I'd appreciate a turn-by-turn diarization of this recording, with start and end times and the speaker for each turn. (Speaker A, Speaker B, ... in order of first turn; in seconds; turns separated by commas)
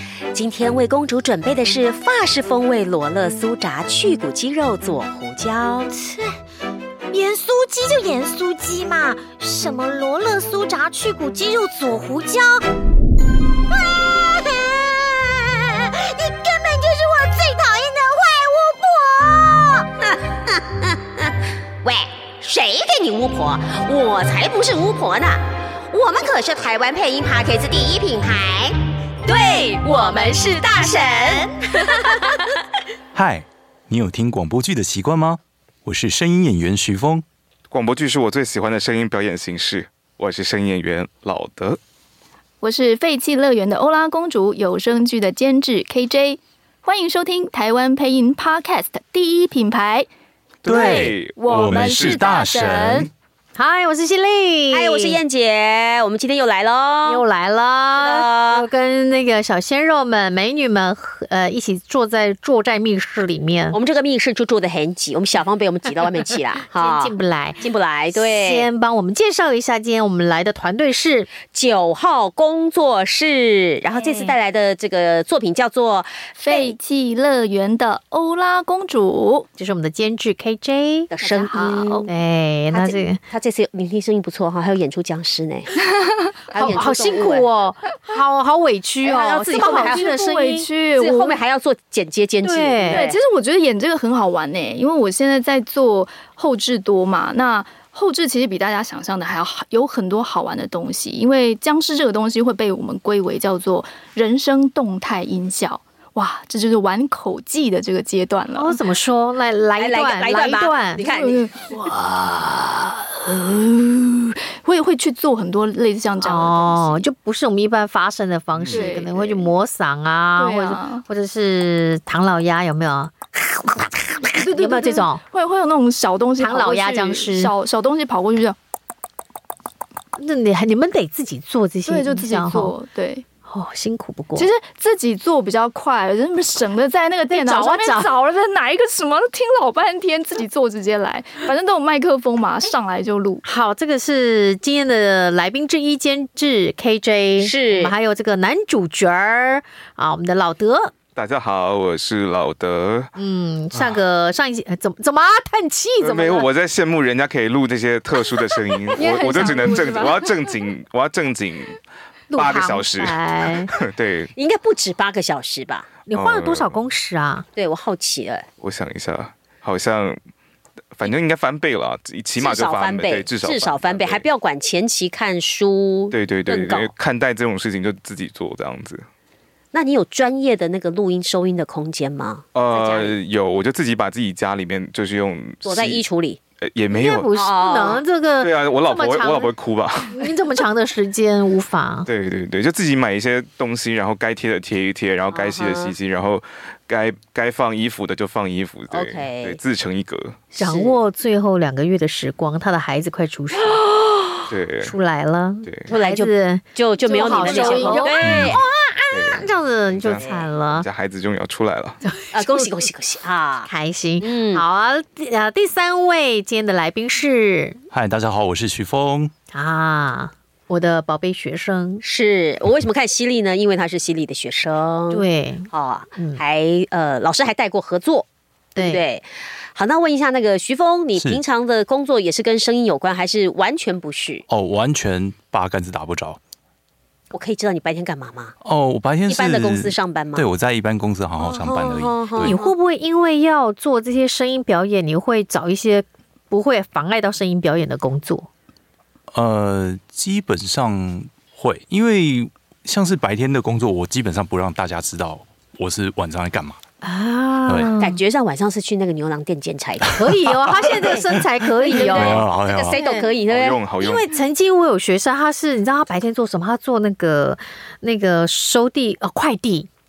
Speaker A: 0.3-5.9, Speaker B: 5.9-6.3, Speaker B: 7.1-12.7, Speaker B: 13.7-19.9, Speaker A: 20.0-32.6, Speaker B: 30.4-31.4, Speaker C: 33.1-37.2, Speaker D: 37.7-41.8, Speaker E: 42.6-50.1, Speaker D: 50.6-52.7, Speaker C: 50.6-53.1, Speaker E: 50.7-53.1, Speaker F: 53.5-55.2, Speaker A: 54.7-57.2, Speaker F: 57.0-63.8, Speaker A: 57.9-58.6, Speaker A: 63.7-68.7, Speaker F: 66.7-71.3, Speaker A: 71.5-76.8, Speaker E: 73.9-74.3, Speaker E: 76.4-79.5, Speaker F: 79.6-81.1, Speaker A: 81.1-82.1, Speaker E: 81.2-82.1, Speaker F: 82.1-83.2, Speaker A: 82.7-85.8, Speaker A: 86.5-87.4, Speaker F: 86.5-90.7, Speaker A: 89.0-90.0, Speaker E: 89.5-91.4, Speaker A: 91.0-93.2, Speaker F: 92.4-93.1, Speaker E: 92.9-108.8, Speaker F: 108.5-111.0, Speaker A: 109.8-111.5, Speaker E: 111.0-117.0, Speaker F: 116.2-125.2, Speaker D: 118.5-118.9, Speaker E: 118.7-119.5, Speaker E: 120.4-121.0, Speaker E: 124.4-128.6, Speaker F: 126.4-127.5, Speaker F: 130.2-132.7, Speaker E: 131.9-133.2, Speaker F: 133.5-134.5, Speaker E: 134.3-143.4, Speaker F: 137.3-138.1, Speaker F: 143.4-150.9, Speaker A: 147.4-147.9, Speaker D: 151.2-153.1, Speaker F: 153.2-156.5, Speaker D: 153.7-154.0, Speaker D: 156.0-161.8, Speaker E: 158.9-160.5, Speaker F: 159.2-159.9, Speaker F: 162.3-163.7, Speaker D: 162.3-164.3, Speaker A: 164.4-165.9, Speaker F: 166.1-167.4, Speaker D: 166.1-166.8, Speaker A: 167.6-168.4, Speaker D: 168.6-170.2, Speaker D: 170.9-174.2, Speaker A: 172.4-176.9, Speaker D: 176.1-179.1, Speaker A: 179.7-183.2, Speaker D: 182.5-186.0, Speaker A: 185.6-186.4, Speaker D: 186.6-187.3, Speaker F: 186.9-189.5, Speaker A: 187.3-188.0, Speaker D: 188.4-190.3, Speaker F: 190.1-192.1, Speaker D: 192.1-200.4, Speaker A: 195.3-195.9, Speaker A: 198.9-199.6, Speaker A: 200.5-201.0, Speaker F: 200.6-203.8, Speaker D: 204.5-204.9, Speaker F: 204.8-210.9, Speaker A: 205.9-208.6, Speaker E: 207.1-208.1, Speaker C: 208.2-208.6, Speaker D: 209.1-212.0, Speaker A: 210.2-210.4, Speaker F: 212.1-212.7, Speaker A: 212.3-213.7, Speaker F: 213.7-217.8, Speaker A: 214.2-214.6, Speaker C: 217.9-219.3, Speaker F: 219.5-222.0, Speaker A: 222.0-228.2, Speaker F: 225.1-226.4, Speaker F: 228.8-229.0, Speaker A: 228.8-234.4, Speaker C: 231.2-231.4, Speaker C: 234.5-236.4, Speaker A: 237.3-238.5, Speaker C: 238.6-242.6, Speaker A: 239.3-240.5, Speaker A: 241.4-242.7, Speaker F: 242.4-248.5, Speaker C: 249.3-256.8, Speaker F: 257.0-258.2, Speaker C: 257.7-257.9, Speaker A: 258.0-260.2, Speaker C: 260.0-261.0, Speaker F: 260.1-263.3, Speaker A: 261.8-263.8, Speaker C: 261.9-263.0, Speaker D: 263.5-264.3, Speaker F: 264.0-269.9